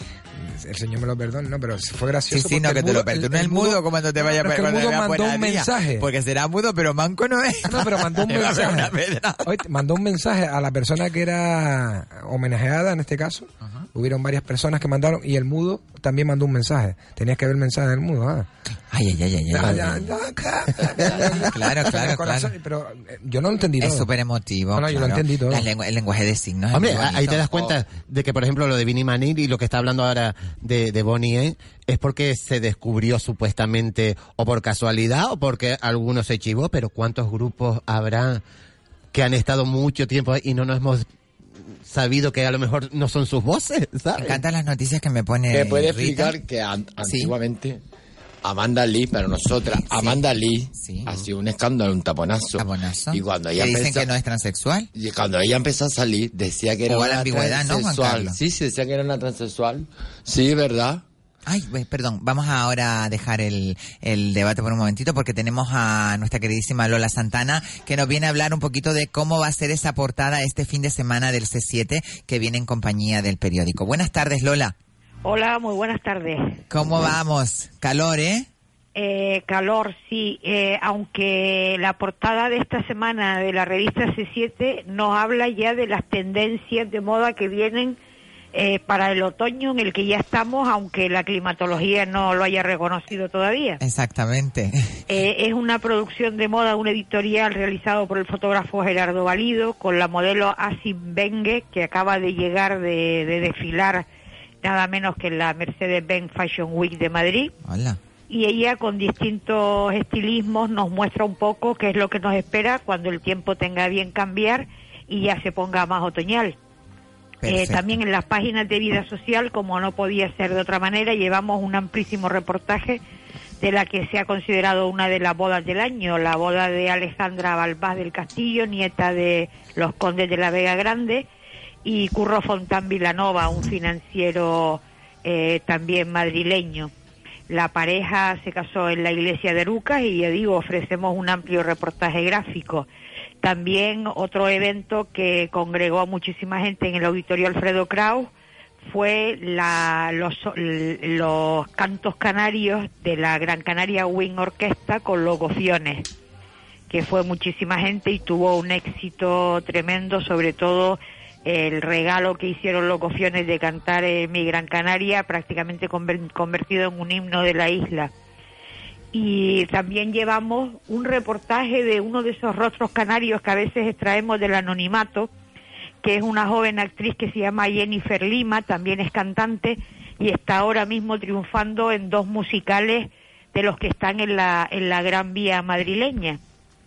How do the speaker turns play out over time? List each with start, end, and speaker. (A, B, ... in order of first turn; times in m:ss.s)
0:00.4-0:06.1 A
0:02.3-0:09.5 B
0:07.7-0:08.9 A
0:09.4-0:18.5 A
0:18.9-0:20.1 B
0:19.5-0:24.1 A
0:21.1-0:22.5 B
0:23.8-0:27.4 B
0:24.8-0:25.7 A
0:26.7-0:38.4 C
0:39.1-0:41.0 C
0:41.8-0:44.4 C
0:44.2-0:46.4 B
0:45.5-0:47.8 D
0:47.0-0:47.3 B
0:48.4-0:54.1 D
0:49.8-0:50.2 B
0:50.7-0:51.1 B
0:52.6-0:54.9 B
0:55.0-1:01.0 D
0:56.9-0:58.4 B
1:01.5-1:14.7 B
1:15.2-1:16.6 E
1:16.7-1:18.5 B
1:19.0-1:28.0 E
1:28.5-1:33.8 E
1:33.8-1:34.9 B
1:35.1-1:44.1 E
1:44.6-1:47.5 E
1:47.6-1:48.0 B
1:48.3-1:56.6 E
1:57.4-1:57.9 B
1:57.4-2:03.0 E
2:03.6-2:11.3 E
2:11.8-2:16.9 E
2:17.5-2:22.9 E
2:23.4-2:28.3 E
2:28.9-2:36.1 E
2:36.9-2:48.1 E
2:49.1-2:55.3 E
2:56.0-3:06.4 E